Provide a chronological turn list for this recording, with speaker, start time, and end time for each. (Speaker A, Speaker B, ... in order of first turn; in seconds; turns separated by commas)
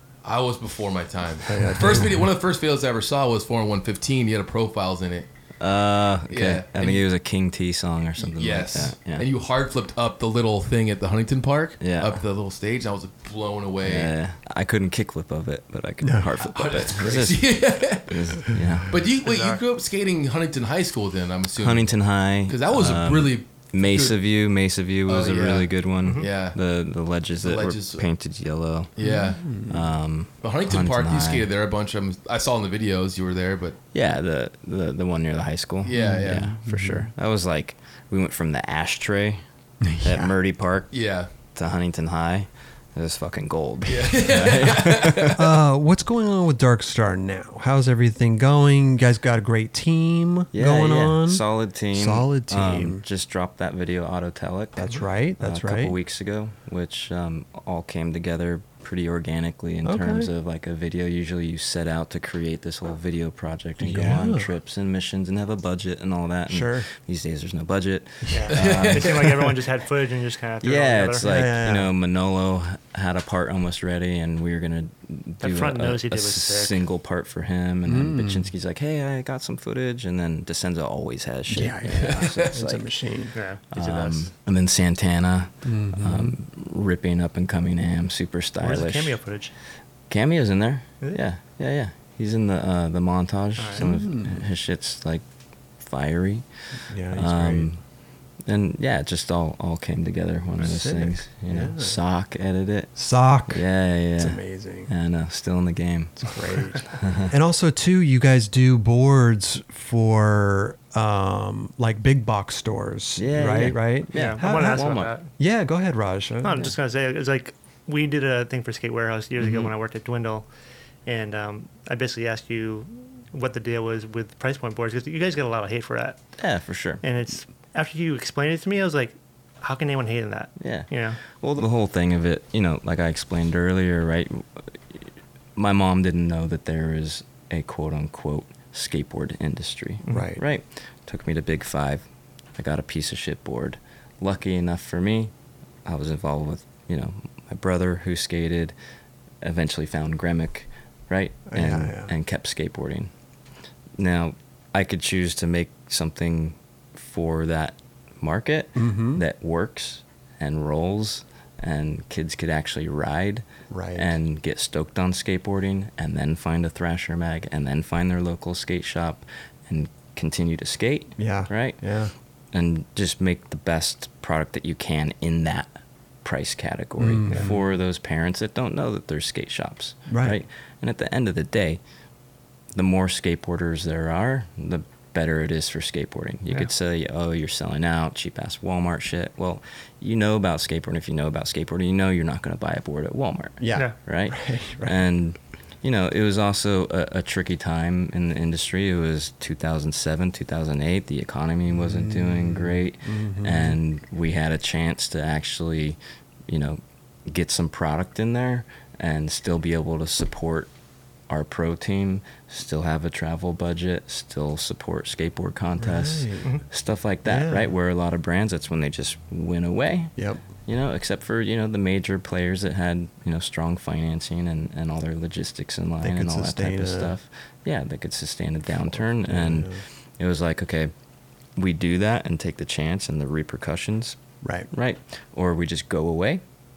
Speaker A: 0.2-5.3, Speaker B: 1.5-2.2, Speaker C: 5.6-9.3, Speaker A: 6.3-7.0, Speaker A: 8.2-14.1, Speaker C: 11.8-12.2, Speaker C: 13.8-19.0, Speaker B: 16.0-16.5, Speaker A: 16.4-18.1, Speaker A: 18.9-24.2, Speaker C: 21.6-29.0, Speaker A: 25.1-26.6, Speaker D: 26.0-26.3, Speaker A: 27.4-28.1, Speaker A: 29.0-29.5, Speaker B: 29.0-29.8, Speaker C: 29.5-31.5, Speaker A: 30.4-33.8, Speaker C: 33.9-39.4, Speaker A: 35.8-36.5, Speaker B: 35.9-37.1, Speaker B: 39.8-40.3, Speaker C: 40.0-45.5, Speaker A: 40.9-41.3, Speaker A: 43.9-45.4, Speaker B: 45.3-53.0, Speaker C: 50.5-69.3, Speaker B: 54.8-56.0, Speaker B: 59.8-60.3, Speaker B: 63.8-64.5, Speaker B: 66.5-66.9, Speaker D: 68.3-71.3, Speaker A: 68.5-69.5, Speaker C: 70.6-83.0, Speaker B: 71.2-71.9, Speaker D: 75.4-76.8, Speaker B: 77.9-78.5, Speaker B: 81.5-83.4, Speaker A: 82.1-82.5, Speaker D: 83.3-84.2, Speaker C: 83.7-89.2, Speaker B: 85.7-86.4, Speaker D: 88.6-89.5, Speaker C: 90.1-95.2, Speaker D: 93.6-93.9, Speaker B: 93.8-94.4, Speaker C: 95.8-96.5, Speaker B: 96.9-97.7, Speaker C: 97.1-97.8, Speaker C: 98.5-103.0, Speaker B: 100.6-102.0, Speaker B: 103.0-103.7, Speaker C: 103.5-107.3, Speaker B: 104.2-104.9, Speaker B: 106.2-116.7, Speaker C: 113.2-115.1, Speaker D: 114.1-115.3, Speaker D: 116.4-120.5, Speaker C: 119.4-119.7, Speaker D: 121.1-126.2, Speaker C: 126.4-127.0, Speaker D: 127.0-131.2, Speaker C: 130.6-145.3, Speaker B: 140.1-140.4, Speaker C: 145.8-148.8, Speaker C: 149.4-153.1, Speaker B: 151.5-152.1, Speaker C: 154.0-163.4, Speaker B: 158.8-159.2, Speaker B: 163.7-164.1, Speaker C: 164.0-171.8, Speaker B: 171.2-172.1, Speaker C: 172.5-181.8, Speaker B: 177.0-177.5, Speaker B: 180.1-180.4, Speaker C: 182.7-210.7, Speaker B: 193.6-195.0, Speaker B: 201.7-203.8, Speaker C: 211.3-230.9, Speaker B: 215.8-216.5, Speaker B: 217.3-217.7, Speaker B: 220.2-220.4, Speaker B: 226.0-227.1, Speaker B: 229.2-229.8, Speaker C: 231.6-234.2, Speaker B: 234.4-234.7, Speaker C: 234.7-236.4